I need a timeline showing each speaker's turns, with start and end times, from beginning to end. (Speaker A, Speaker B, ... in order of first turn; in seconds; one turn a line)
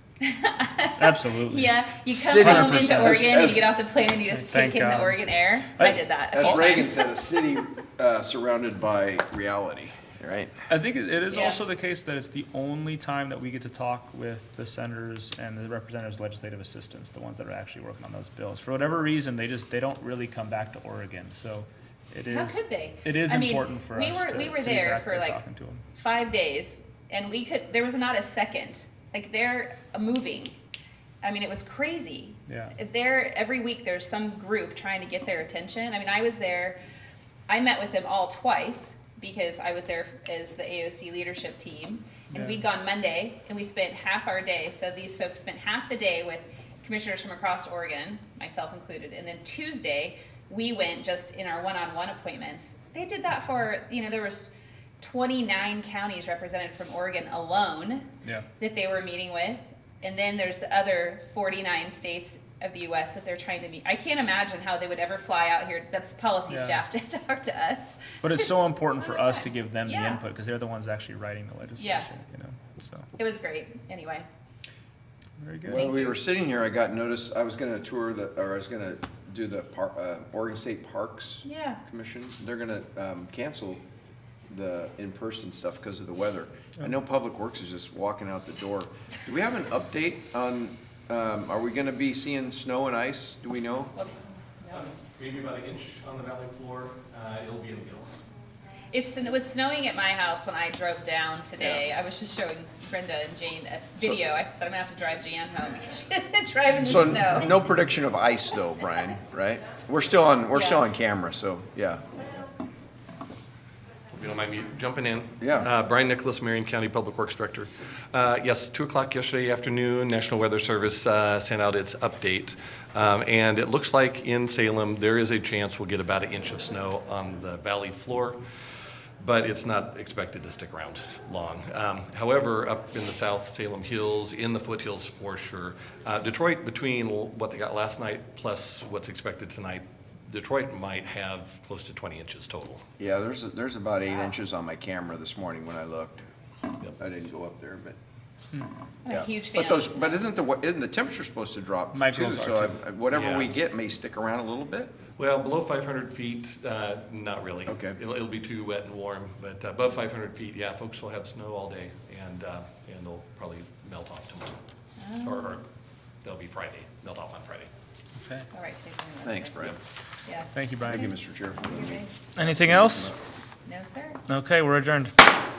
Speaker A: 0.2-7.0
Speaker B: 1.0-1.7
Speaker C: 2.1-3.7
Speaker B: 2.4-3.2
Speaker B: 4.3-5.2
Speaker B: 5.8-6.8
Speaker C: 6.3-10.5
Speaker B: 10.7-25.8
Speaker A: 11.3-11.6
Speaker A: 22.3-25.4
Speaker A: 25.9-30.6
Speaker A: 31.2-36.8
Speaker B: 32.5-32.7
Speaker A: 37.5-68.5
Speaker B: 66.5-66.8
Speaker B: 68.2-73.1
Speaker A: 69.0-70.2
Speaker A: 71.8-72.1
Speaker A: 73.2-74.3
Speaker B: 75.4-75.8
Speaker C: 75.6-83.8
Speaker A: 75.7-76.2
Speaker A: 81.4-81.8
Speaker C: 84.5-93.9
Speaker A: 93.9-94.9
Speaker D: 94.7-98.2
Speaker A: 98.9-107.5
Speaker C: 101.6-101.8
Speaker C: 106.8-112.0
Speaker A: 110.5-110.8
Speaker D: 114.1-128.4
Speaker C: 115.4-115.7
Speaker D: 129.2-142.8
Speaker C: 143.0-146.2
Speaker C: 147.0-148.0
Speaker A: 149.1-150.2
Speaker C: 149.1-155.0
Speaker B: 151.9-152.8
Speaker D: 153.1-153.5
Speaker D: 155.2-164.6
Speaker C: 157.7-158.0
Speaker A: 165.0-165.5
Speaker D: 165.2-165.6
Speaker D: 166.2-167.7
Speaker B: 168.2-168.5
Speaker A: 168.5-172.1
Speaker C: 169.2-169.8
Speaker B: 170.5-171.1
Speaker C: 170.8-173.1
Speaker B: 172.3-173.1
Speaker A: 173.7-174.2
Speaker B: 174.3-175.1